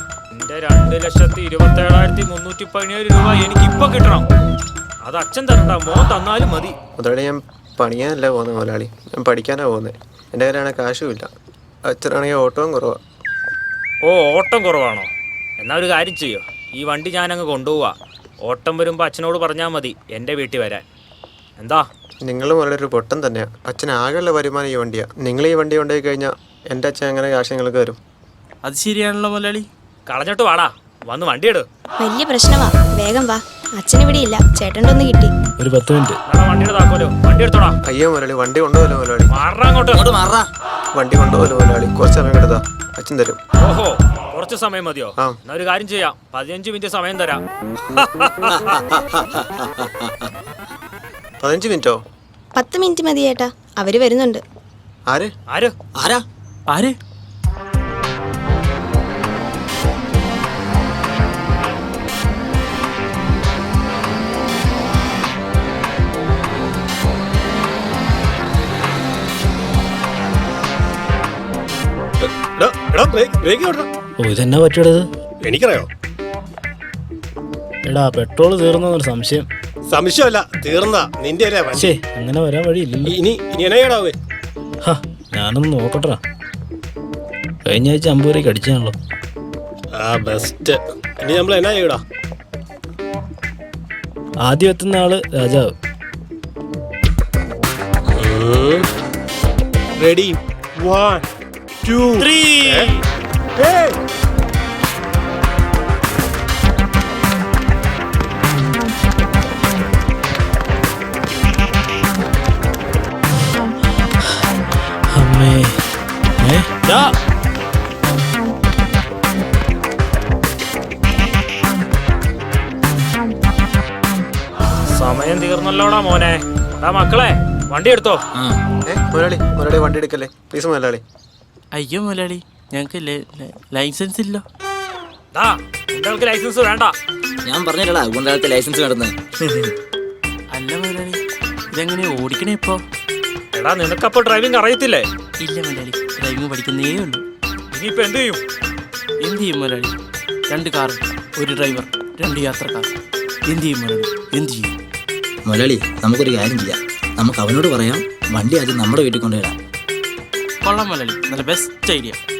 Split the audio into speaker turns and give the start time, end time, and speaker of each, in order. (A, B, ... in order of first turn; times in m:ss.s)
0:00.3-0:04.2 A
0:05.0-0:06.8 A
0:07.0-0:11.3 B
0:11.9-0:13.0 B
0:14.0-0:20.8 A
0:21.6-0:21.8 A
0:22.2-0:28.0 B
0:28.6-0:29.7 C
0:30.1-0:31.6 A
0:32.0-0:35.3 D
0:35.6-0:36.2 E
0:36.3-0:37.7 A
0:37.8-0:39.3 B
0:39.3-0:40.0 A
0:39.9-0:40.4 F
0:40.9-0:43.4 B
0:43.6-0:48.8 A
0:48.5-0:50.3 F
0:51.4-0:52.0 B
0:52.5-0:54.4 D
0:55.9-0:56.2 F
0:56.7-0:57.0 C
1:12.2-1:13.9 G
1:14.2-1:15.1 E
1:15.4-1:15.9 G
1:17.8-1:19.5 E
1:19.9-1:21.9 G
1:21.8-1:23.2 E
1:23.0-1:24.2 G
1:24.8-1:26.2 E
1:27.6-1:29.0 E
1:29.9-1:32.0 G
1:34.4-1:35.7 E
1:38.2-1:38.9 G
1:40.0-1:41.3 G
1:41.8-1:42.9 G
1:43.6-1:44.0 G
1:55.1-1:55.8 E
1:56.4-1:57.1 E
2:04.9-2:08.2 A
2:08.3-2:08.6 F
2:08.9-2:11.0 B
2:11.7-2:14.4 C
2:15.3-2:16.9 A
2:17.4-2:19.7 F
2:20.5-2:21.2 C
2:21.7-2:22.8 C
2:23.5-2:25.0 A
2:25.4-2:27.2 C
2:27.7-2:28.4 A
2:29.2-2:29.9 C
2:30.5-2:32.9 C
2:33.5-2:34.7 C
2:35.4-2:39.6 F
2:40.6-2:42.2 C